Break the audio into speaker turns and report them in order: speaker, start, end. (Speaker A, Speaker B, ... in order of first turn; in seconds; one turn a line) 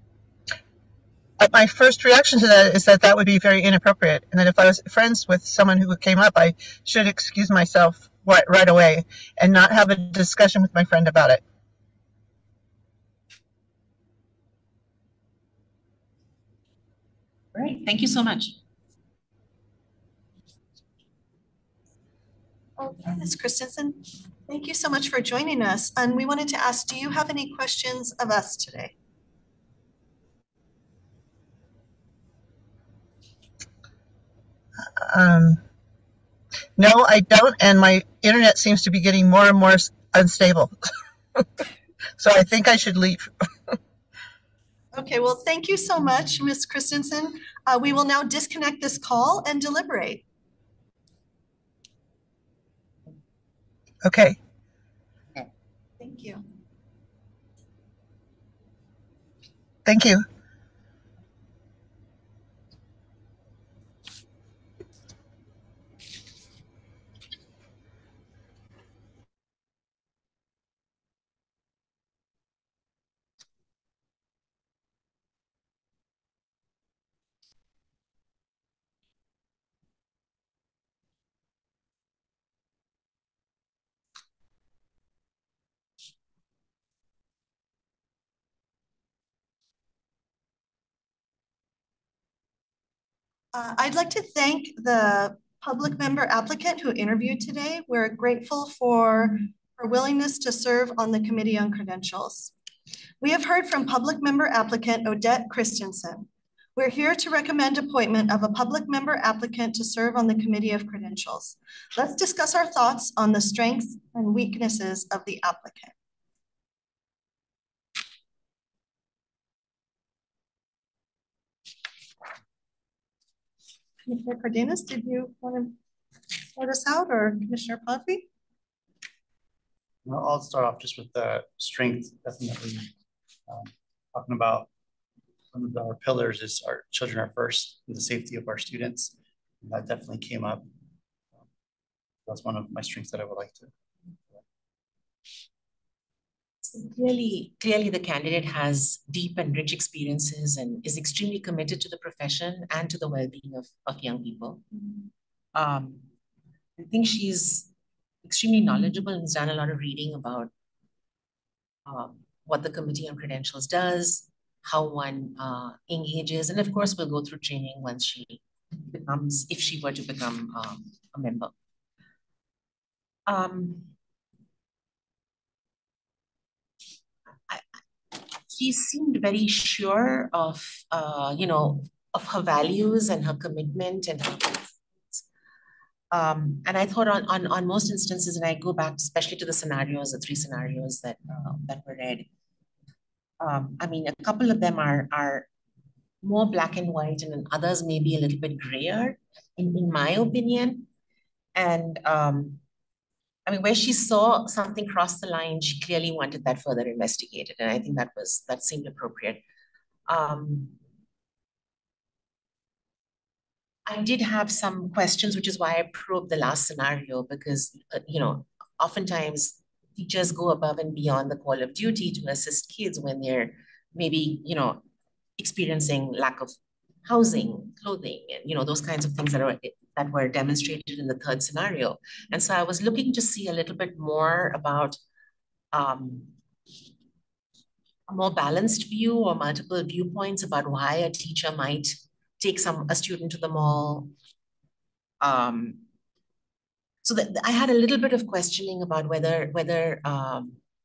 Speaker A: 1.4-11.4
Speaker B: 17.5-18.6
Speaker C: 22.8-28.9
Speaker A: 35.0-35.6
Speaker A: 36.8-40.7
Speaker A: 42.2-43.8
Speaker C: 44.9-50.2
Speaker A: 54.0-54.4
Speaker C: 56.0-56.4
Speaker A: 59.9-60.2
Speaker C: 93.5-102.5
Speaker C: 103.2-115.9
Speaker C: 124.1-125.8
Speaker C: 126.5-128.3
Speaker D: 130.1-132.9
Speaker D: 133.5-134.7
Speaker D: 135.5-140.7
Speaker D: 142.3-143.7
Speaker B: 146.6-154.6
Speaker B: 155.5-156.1
Speaker B: 156.8-157.7
Speaker B: 158.2-160.5
Speaker B: 161.9-171.5
Speaker B: 173.3-173.9
Speaker B: 177.5-185.2
Speaker B: 186.1-192.3
Speaker B: 193.4-195.5
Speaker B: 196.2-200.9
Speaker B: 201.6-202.6
Speaker B: 203.5-209.4
Speaker B: 210.1-210.8
Speaker B: 213.9-224.8
Speaker B: 225.4-226.5
Speaker B: 227.0-235.0
Speaker B: 235.7-236.3
Speaker B: 238.1-244.1
Speaker B: 245.2-245.8
Speaker B: 247.0-250.6